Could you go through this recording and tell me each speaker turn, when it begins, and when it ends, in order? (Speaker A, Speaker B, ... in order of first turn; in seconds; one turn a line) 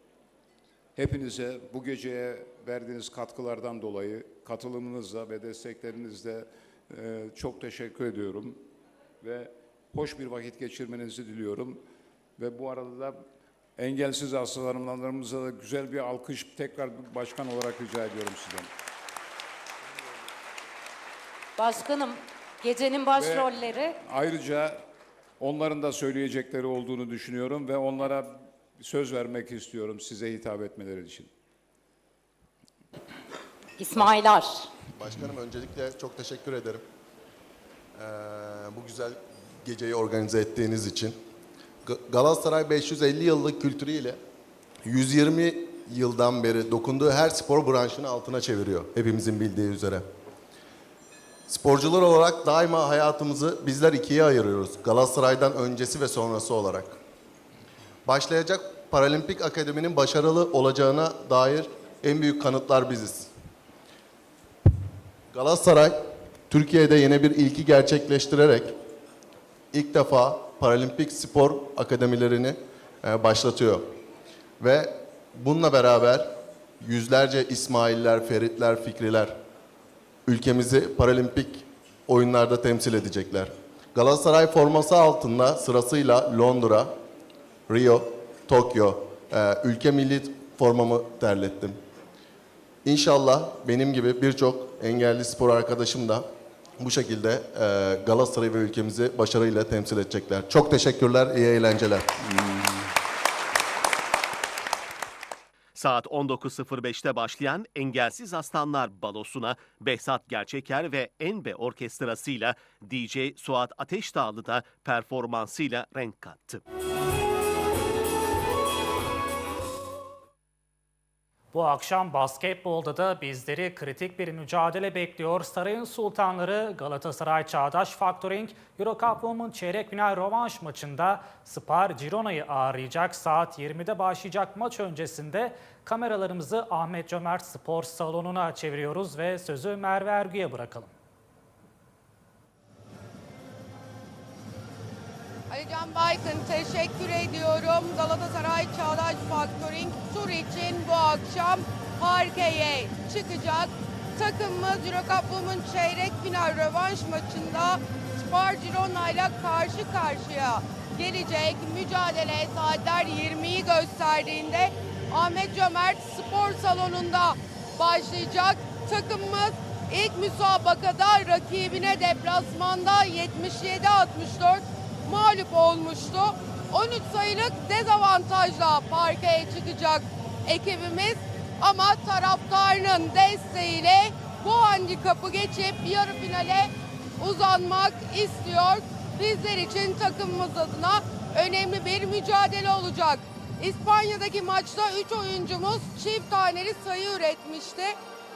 Speaker A: 0.9-8.6
Speaker A: 9.2-11.8
Speaker A: 12.4-13.2
Speaker A: 13.8-18.7
Speaker B: 21.6-23.9
Speaker A: 23.1-24.9
Speaker A: 25.4-31.3
Speaker B: 33.8-34.7
Speaker C: 34.9-36.8
Speaker C: 37.9-41.2
Speaker C: 41.8-44.2
Speaker C: 44.8-50.0
Speaker C: 51.5-57.0
Speaker C: 58.0-63.3
Speaker C: 65.3-68.7
Speaker C: 69.7-73.9
Speaker C: 74.6-79.3
Speaker C: 80.3-87.0
Speaker C: 87.7-91.8
Speaker C: 92.8-96.2
Speaker C: 96.8-102.1
Speaker A: 102.3-102.9
Speaker D: 105.7-116.6
Speaker E: 121.5-140.9
Speaker F: 145.5-198.0